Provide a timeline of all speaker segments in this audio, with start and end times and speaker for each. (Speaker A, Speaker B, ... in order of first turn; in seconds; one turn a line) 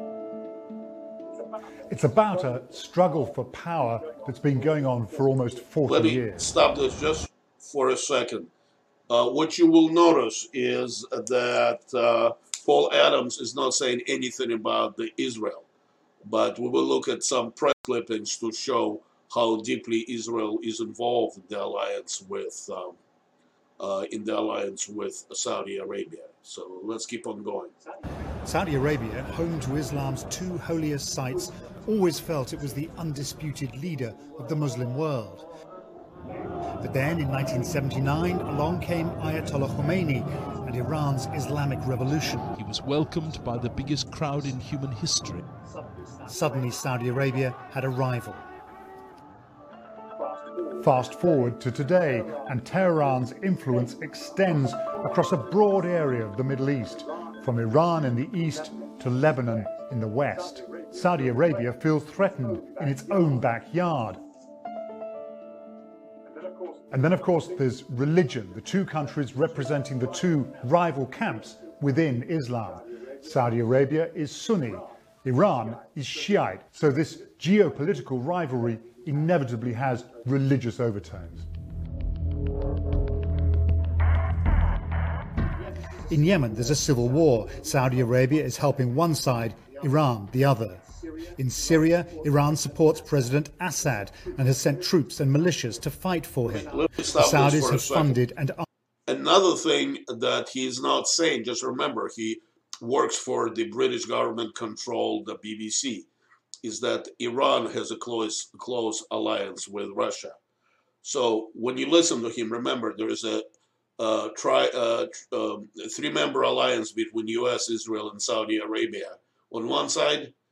Speaker A: 1.9-6.5
Speaker B: 5.9-8.5
Speaker B: 9.1-15.7
Speaker B: 16.2-23.0
Speaker B: 23.8-27.8
Speaker A: 28.4-35.5
Speaker A: 36.8-42.5
Speaker C: 42.6-45.4
Speaker A: 46.3-48.5
Speaker A: 50.8-64.2
Speaker A: 66.9-81.5
Speaker A: 86.1-90.8
Speaker A: 91.4-98.7
Speaker B: 96.5-98.2
Speaker B: 99.1-106.1
Speaker B: 106.6-110.4
Speaker B: 111.0-113.5
Speaker B: 114.0-120.3